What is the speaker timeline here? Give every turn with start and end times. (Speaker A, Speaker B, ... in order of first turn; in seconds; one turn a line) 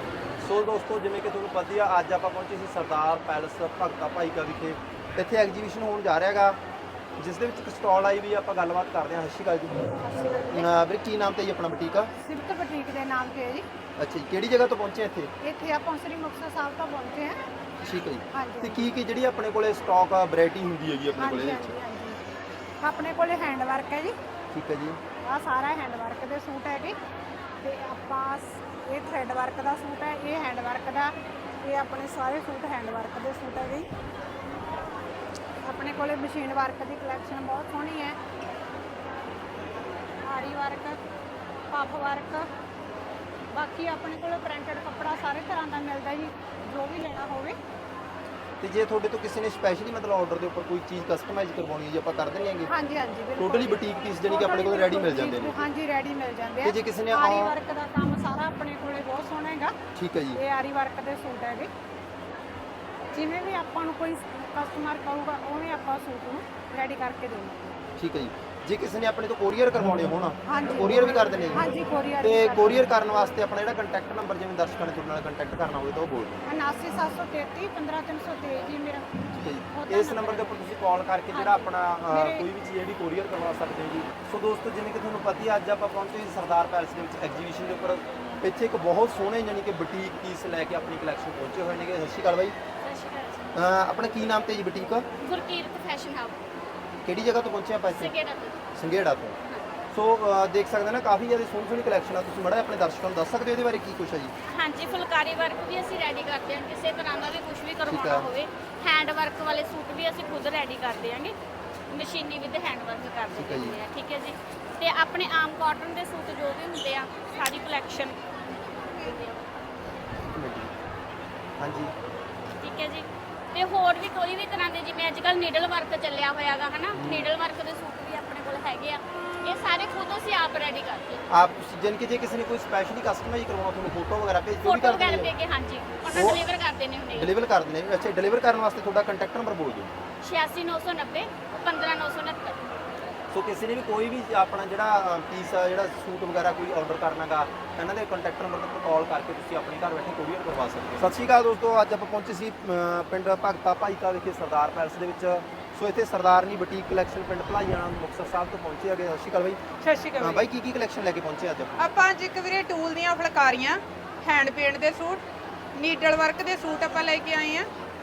Speaker A: 0.4-6.6
Speaker A: 7.2-9.8
Speaker B: 10.1-10.7
Speaker A: 10.5-12.1
Speaker B: 12.2-13.7
Speaker A: 14.0-15.3
Speaker B: 15.4-17.4
Speaker A: 17.8-21.8
Speaker B: 18.3-18.9
Speaker B: 21.2-22.2
Speaker B: 22.8-24.1
Speaker A: 24.5-25.0
Speaker B: 25.2-26.9
Speaker B: 27.6-31.1
Speaker B: 31.6-33.9
Speaker B: 35.6-38.2
Speaker B: 40.2-41.0
Speaker B: 41.7-42.5
Speaker B: 43.5-47.5
Speaker A: 48.6-52.7
Speaker B: 52.7-59.7
Speaker A: 53.4-55.7
Speaker A: 56.6-57.5
Speaker A: 59.9-60.4
Speaker B: 60.3-61.7
Speaker B: 63.1-67.8
Speaker A: 68.0-71.6
Speaker B: 70.5-72.9
Speaker A: 72.2-76.4
Speaker B: 76.5-79.2
Speaker A: 79.3-92.5
Speaker B: 79.7-80.6
Speaker B: 81.3-82.4
Speaker C: 92.8-93.5
Speaker A: 93.5-95.0
Speaker C: 95.2-96.4
Speaker A: 97.0-98.1
Speaker C: 97.9-98.6
Speaker A: 98.7-99.3
Speaker A: 99.9-104.3
Speaker C: 104.5-111.3
Speaker A: 107.8-108.3
Speaker C: 111.9-118.2
Speaker A: 113.3-113.8
Speaker C: 118.8-119.4
Speaker A: 120.3-120.7
Speaker A: 121.6-121.9
Speaker C: 122.6-131.2
Speaker A: 126.9-127.3
Speaker A: 131.3-135.3
Speaker C: 134.6-137.3
Speaker A: 136.1-136.4
Speaker A: 137.1-139.9
Speaker C: 140.2-142.7
Speaker A: 143.3-159.6
Speaker D: 159.8-160.4
Speaker A: 160.2-161.9
Speaker D: 161.8-165.2
Speaker D: 165.8-167.7